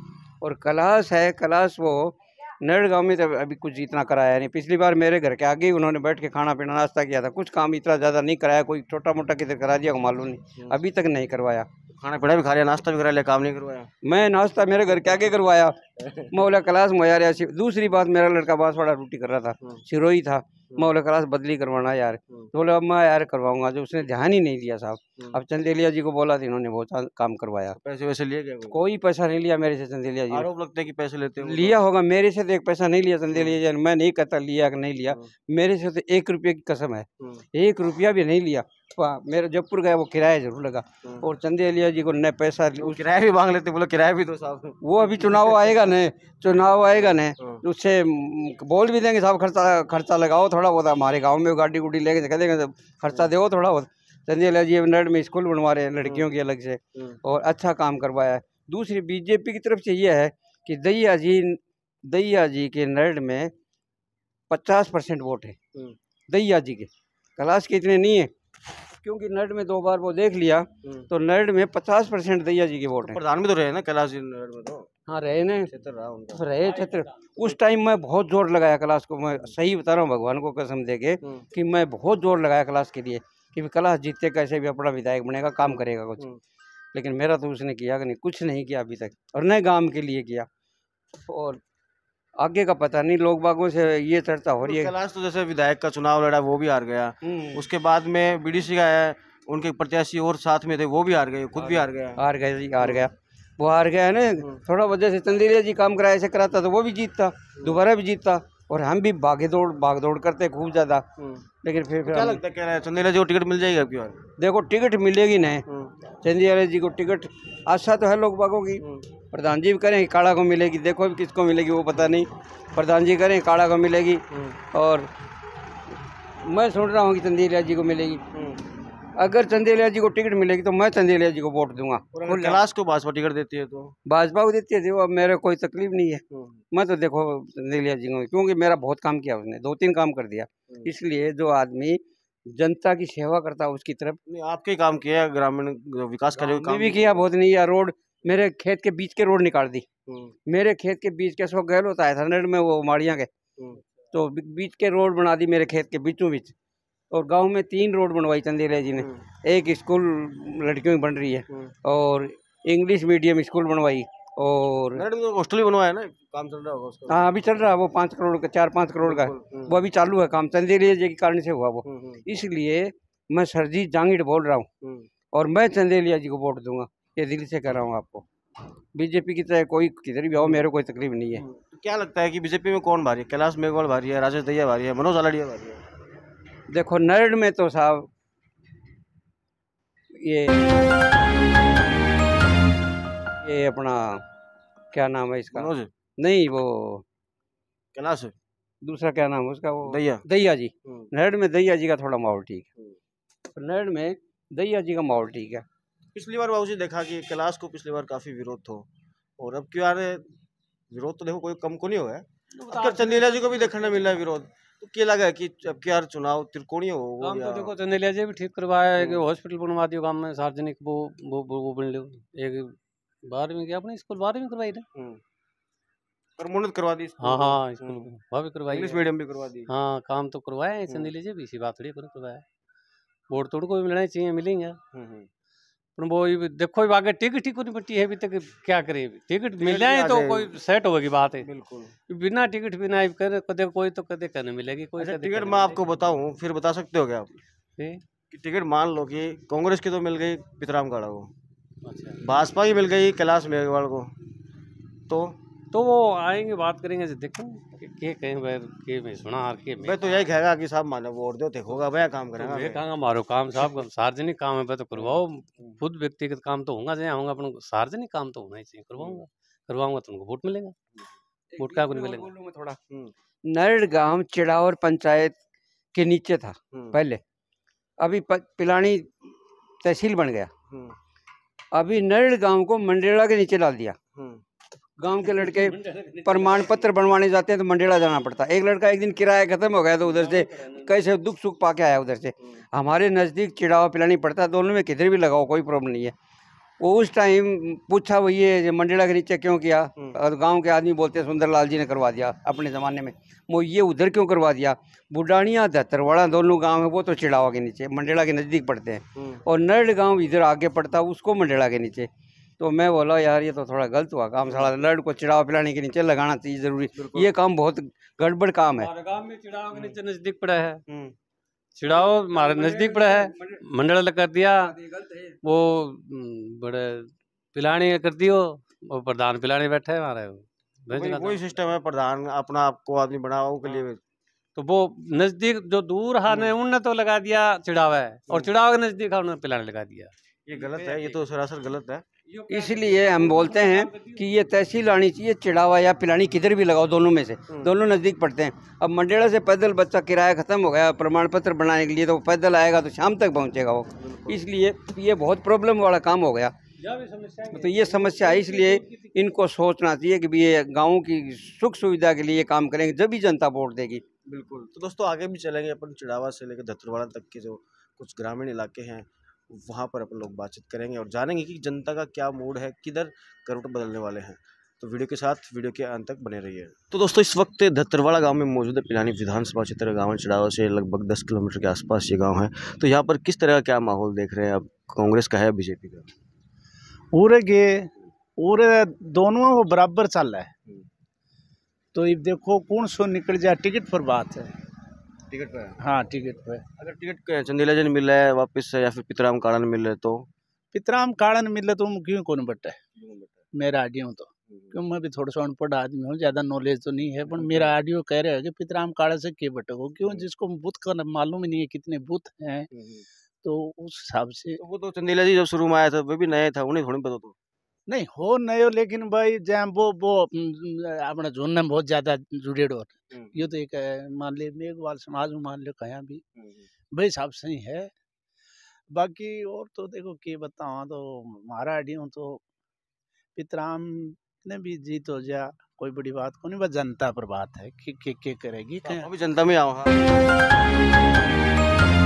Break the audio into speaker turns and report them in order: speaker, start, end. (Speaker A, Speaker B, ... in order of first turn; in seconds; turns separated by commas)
Speaker A: 0.4-11.7, Speaker B: 11.9-13.9, Speaker A: 14.0-15.8, Speaker A: 16.3-27.8, Speaker B: 27.8-28.8, Speaker A: 28.7-30.5, Speaker B: 30.3-31.8, Speaker A: 31.4-43.0, Speaker B: 42.8-45.7, Speaker A: 44.8-63.5, Speaker A: 64.5-65.6, Speaker A: 66.3-68.3, Speaker A: 69.0-73.2, Speaker B: 73.0-74.9, Speaker A: 75.1-75.7, Speaker B: 75.7-76.5, Speaker A: 76.3-86.3, Speaker B: 81.2-81.5, Speaker A: 86.9-90.5, Speaker A: 91.3-91.6, Speaker A: 92.4-94.9, Speaker B: 94.6-102.2, Speaker A: 97.2-97.6, Speaker A: 101.6-111.0, Speaker B: 102.8-103.1, Speaker B: 111.2-111.4, Speaker A: 111.6-112.4, Speaker B: 112.0-114.2, Speaker A: 114.4-115.6, Speaker B: 115.7-115.9, Speaker A: 116.2-125.1, Speaker B: 124.3-124.5, Speaker A: 126.4-128.2, Speaker B: 128.3-128.6, Speaker A: 129.2-132.6, Speaker B: 132.1-133.9, Speaker A: 134.1-142.0, Speaker B: 136.3-136.6, Speaker A: 142.5-144.2, Speaker B: 144.3-147.2, Speaker A: 146.4-149.8, Speaker B: 150.1-150.3, Speaker A: 150.5-153.3, Speaker A: 154.1-156.5, Speaker A: 157.1-165.0, Speaker B: 159.0-159.2, Speaker B: 164.9-167.3, Speaker A: 167.1-174.7, Speaker B: 169.0-169.7, Speaker B: 171.8-172.2, Speaker B: 174.8-175.1, Speaker A: 175.3-178.2, Speaker A: 178.9-181.4, Speaker B: 180.4-180.6, Speaker B: 181.4-185.8, Speaker A: 186.7-188.1, Speaker A: 190.1-190.6, Speaker A: 193.4-194.2, Speaker A: 194.9-197.0, Speaker B: 195.5-195.9, Speaker B: 197.9-198.3, Speaker A: 198.8-202.7, Speaker B: 199.9-200.2, Speaker A: 203.5-205.7, Speaker B: 206.1-208.8, Speaker B: 209.4-210.3, Speaker B: 210.9-217.7, Speaker C: 212.6-214.2, Speaker C: 217.2-222.7, Speaker C: 223.3-224.8, Speaker B: 224.9-225.2, Speaker B: 226.4-228.1, Speaker C: 227.2-229.1, Speaker B: 228.7-229.7, Speaker C: 229.7-232.4, Speaker C: 233.3-234.8, Speaker B: 234.9-235.3, Speaker C: 236.0-241.5, Speaker B: 239.6-240.5, Speaker B: 241.4-241.9, Speaker C: 242.1-245.9, Speaker B: 245.0-247.4, Speaker C: 247.8-248.0, Speaker B: 248.3-251.3, Speaker C: 251.8-252.2, Speaker B: 252.2-254.1, Speaker B: 255.1-255.3, Speaker C: 255.7-260.2, Speaker B: 259.8-262.8, Speaker C: 262.4-270.8, Speaker B: 264.9-265.8, Speaker B: 268.9-269.2, Speaker A: 271.5-272.8, Speaker C: 271.6-272.3, Speaker A: 273.5-275.4, Speaker A: 275.9-277.2, Speaker B: 276.7-277.0, Speaker A: 278.0-279.1, Speaker A: 279.8-280.5, Speaker B: 280.7-280.9, Speaker A: 281.7-284.0, Speaker B: 284.1-284.4, Speaker A: 285.0-296.1, Speaker C: 285.4-286.7, Speaker C: 290.1-290.8, Speaker A: 296.8-312.1, Speaker B: 309.1-309.4, Speaker A: 312.6-318.9, Speaker B: 317.0-317.3, Speaker C: 318.8-320.8, Speaker B: 320.9-321.1, Speaker C: 321.7-331.5, Speaker B: 330.9-334.0, Speaker C: 334.6-341.2, Speaker B: 336.3-336.5, Speaker B: 340.5-342.1, Speaker C: 342.3-344.2, Speaker A: 342.5-356.5, Speaker B: 354.0-354.4, Speaker C: 356.8-359.1, Speaker A: 357.5-364.0, Speaker B: 364.2-386.1, Speaker D: 387.1-390.5, Speaker D: 391.9-394.5, Speaker B: 395.3-395.8, Speaker D: 395.8-396.6, Speaker B: 396.8-400.3, Speaker D: 400.7-402.8, Speaker B: 402.9-403.4, Speaker D: 403.5-412.7, Speaker B: 404.5-404.8, Speaker B: 407.3-407.7, Speaker B: 412.7-413.1, Speaker D: 413.4-414.6, Speaker B: 414.6-417.3, Speaker D: 417.9-426.2, Speaker B: 423.1-423.5, Speaker B: 426.4-426.6, Speaker D: 426.9-427.9, Speaker D: 428.9-432.4, Speaker D: 433.4-439.1, Speaker B: 438.8-440.0